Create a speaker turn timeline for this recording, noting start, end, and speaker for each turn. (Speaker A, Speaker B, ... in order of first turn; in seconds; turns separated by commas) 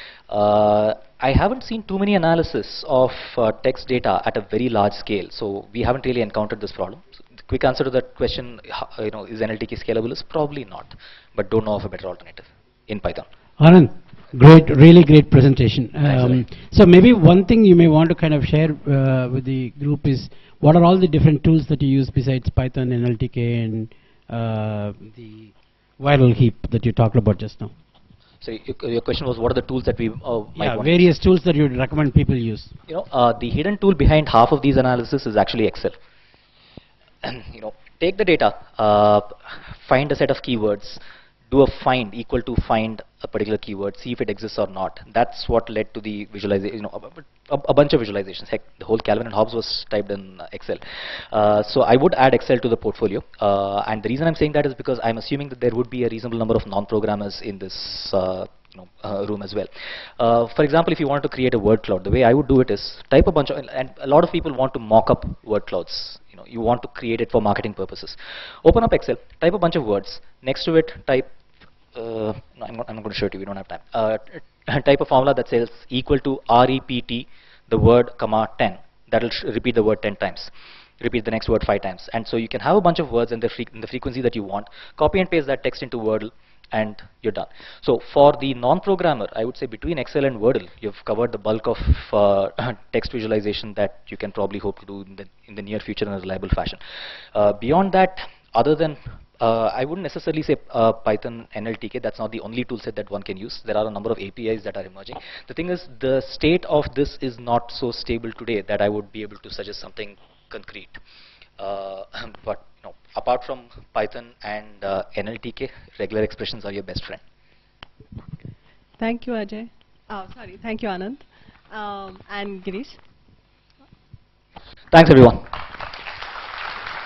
Speaker A: 0.3-13.3, Speaker B: 13.6-27.7, Speaker A: 16.0-16.5, Speaker A: 28.4-31.1, Speaker B: 30.6-32.8, Speaker A: 32.9-36.0, Speaker A: 37.2-71.3, Speaker A: 71.9-96.8, Speaker A: 97.3-111.0, Speaker A: 111.6-117.2, Speaker C: 119.0-123.0, Speaker A: 124.9-125.7